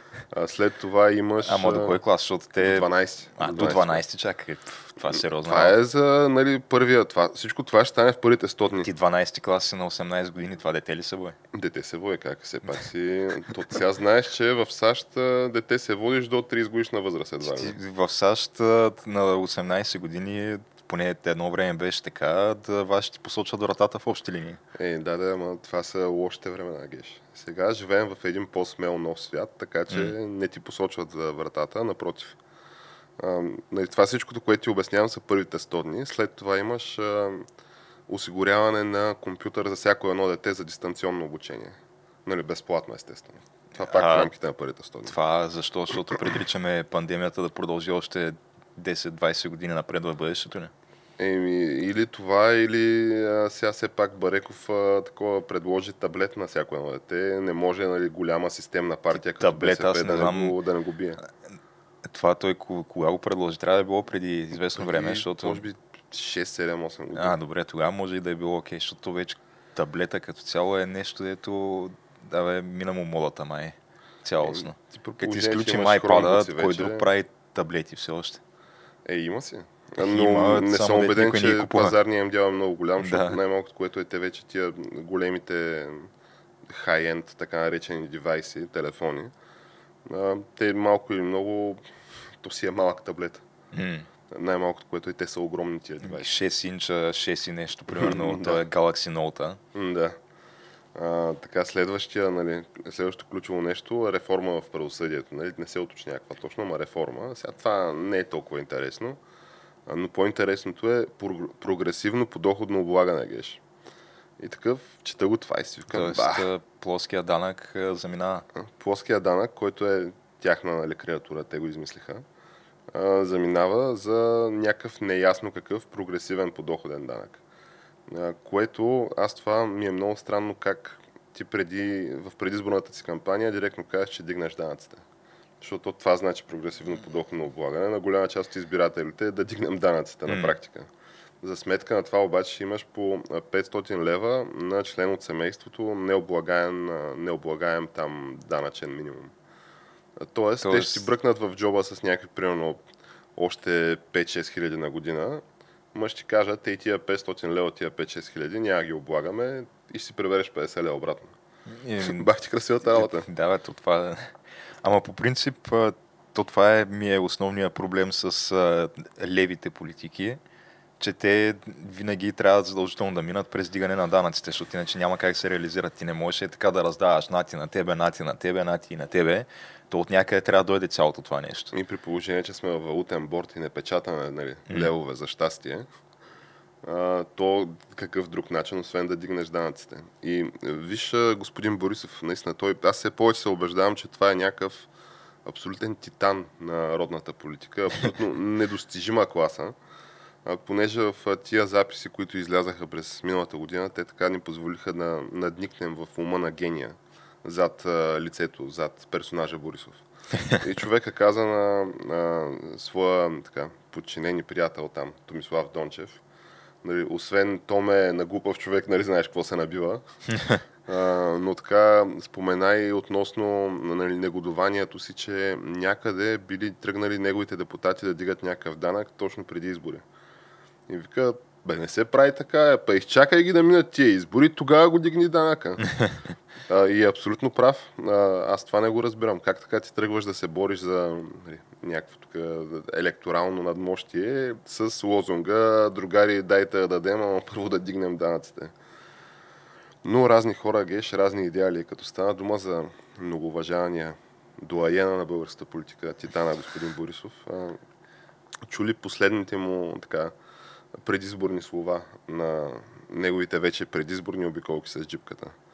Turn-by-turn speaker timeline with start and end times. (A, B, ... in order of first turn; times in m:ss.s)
0:00.3-0:02.0 A
0:01.4-0:05.8 B
0:02.6-0:04.0 A
0:05.4-0:08.9 A
0:08.8-0:11.4 B
0:11.5-0:17.8 A
0:17.4-0:24.6 B
0:24.8-0:32.4 A
0:33.2-0:37.4 A
0:38.1-0:45.1 A
0:43.8-0:44.3 B
0:45.1-0:50.7 B
0:51.2-1:01.2 A
0:59.1-1:00.6 B
1:02.1-1:05.6 B
1:04.8-1:07.4 A
1:07.1-1:18.4 B
1:14.4-1:17.1 A
1:19.0-1:26.1 A
1:20.0-1:22.0 B
1:23.0-1:23.4 B
1:26.6-1:29.3 A
1:30.1-1:31.8 A
1:32.4-1:33.4 A
1:33.7-1:34.1 B
1:34.3-1:36.3 A
1:36.0-1:39.6 B
1:37.9-1:38.6 A
1:39.7-1:40.2 A
1:40.9-1:49.2 A
1:49.8-1:53.6 A
1:54.4-1:56.5 A
1:55.9-1:58.4 B
1:58.6-2:02.2 A
2:02.9-2:07.4 A
2:08.1-2:15.0 A
2:15.6-2:20.9 A
2:20.3-2:20.6 B
2:21.4-2:29.3 A
2:30.2-2:32.8 A
2:30.6-2:31.1 B
2:33.4-2:41.3 A
2:41.7-2:42.3 B
2:42.0-2:43.3 A
2:42.9-2:50.4 B
2:51.0-3:01.7 B
3:01.7-3:05.9 A
3:06.8-3:14.9 A
3:15.4-3:19.8 A
3:20.4-3:36.2 A
3:36.8-3:40.0 A
3:40.8-3:50.0 A
3:50.9-3:55.9 A
3:56.7-4:08.7 A
4:10.0-4:17.8 A
4:18.7-4:20.3 A
4:20.9-4:25.6 A